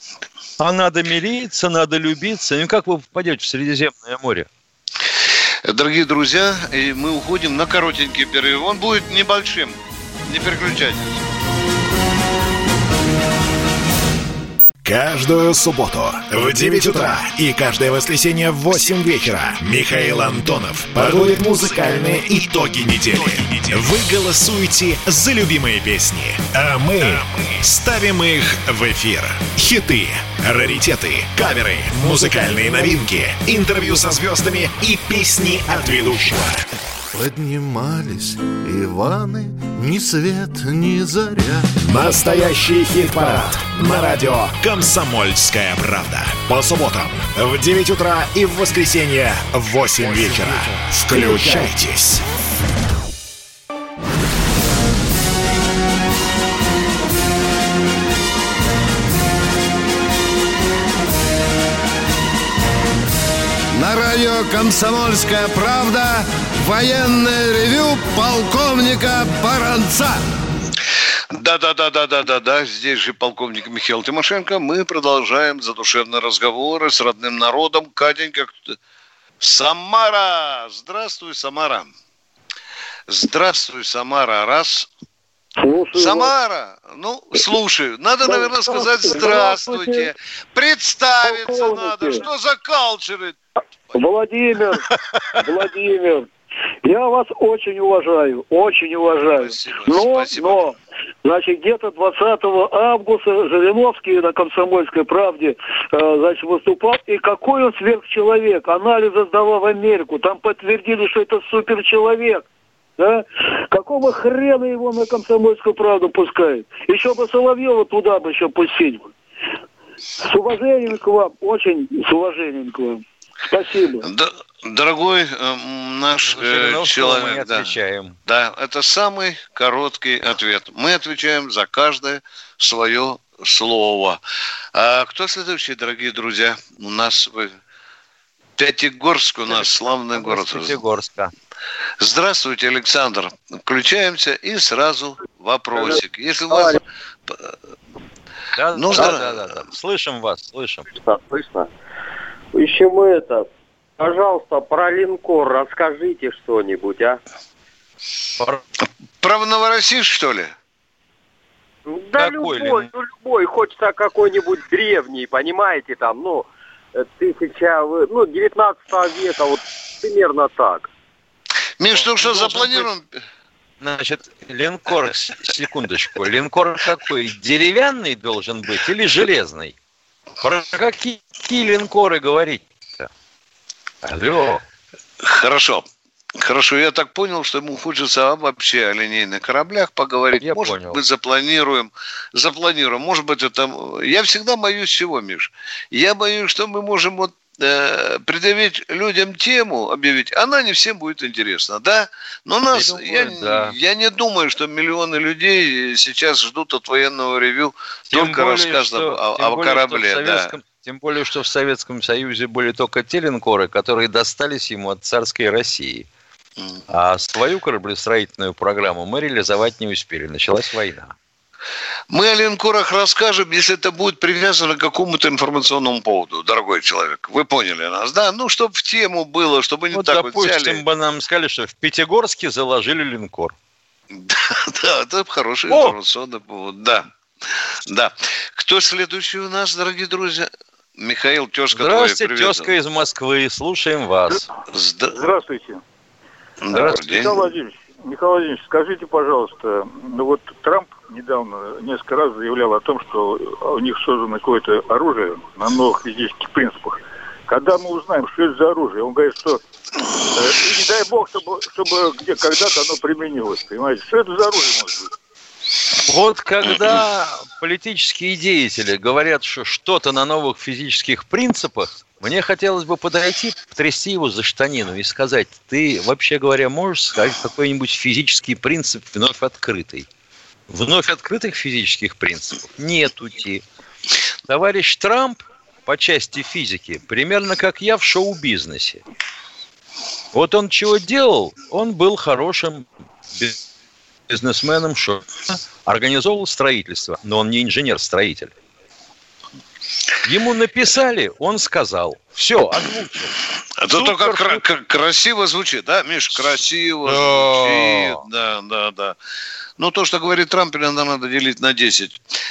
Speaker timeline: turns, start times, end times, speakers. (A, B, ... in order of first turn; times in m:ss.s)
0:00.6-0:04.5 A
0:05.6-0:11.2 B
0:14.8-0:36.6 C
0:37.1-0:41.7 D
0:41.8-0:52.2 C
1:03.7-1:10.2 B
1:11.3-1:18.8 B
1:19.4-1:21.9 B
1:23.1-1:24.9 B
1:25.6-1:26.3 E
1:26.0-1:33.4 B
1:28.2-1:30.1 E
1:31.2-1:32.3 E
1:33.9-1:34.8 E
1:35.4-1:36.3 E
1:36.8-1:52.4 E
1:39.2-1:40.6 B
1:53.0-1:59.1 E
2:00.2-2:04.1 E
2:04.0-2:07.7 B
2:06.2-2:08.2 A
2:08.3-2:14.2 B
2:14.8-2:17.6 B
2:18.6-2:20.7 B
2:19.5-2:21.3 A
2:22.0-2:27.4 B
2:25.7-2:26.8 F
2:28.6-2:30.9 A
2:28.8-2:29.5 B
2:30.9-2:31.7 F
2:32.5-2:33.5 F
2:34.0-2:37.2 F
2:39.2-2:40.5 B
2:41.9-2:46.5 F
2:42.2-2:42.9 A
2:47.0-2:50.9 F
2:51.8-2:53.1 B
2:51.9-2:52.9 A
2:53.8-2:59.8 A
3:00.4-3:03.1 A
3:04.0-3:04.6 A
3:05.2-3:05.8 B
3:06.4-3:30.5 B
3:10.4-3:11.0 A
3:22.7-3:23.8 A
3:28.1-3:36.1 A
3:36.9-3:41.2 A
3:42.1-3:50.8 B
3:49.9-3:53.5 A
3:54.1-4:02.7 B
3:55.7-3:56.0 A
4:01.7-4:04.5 A
4:04.7-4:05.2 B
4:05.1-4:05.8 G
4:06.7-4:07.4 B
4:06.7-4:07.0 A
4:06.8-4:19.6 G
4:20.3-4:25.1 G
4:26.1-4:40.1 A
4:40.7-4:43.6 A
4:44.5-4:49.0 A
4:50.3-4:53.6 A
4:54.3-4:58.5 A
5:00.2-5:03.4 A
5:03.8-5:09.2 B
5:03.9-5:04.6 A
5:07.1-5:08.2 A
5:09.8-5:12.2 B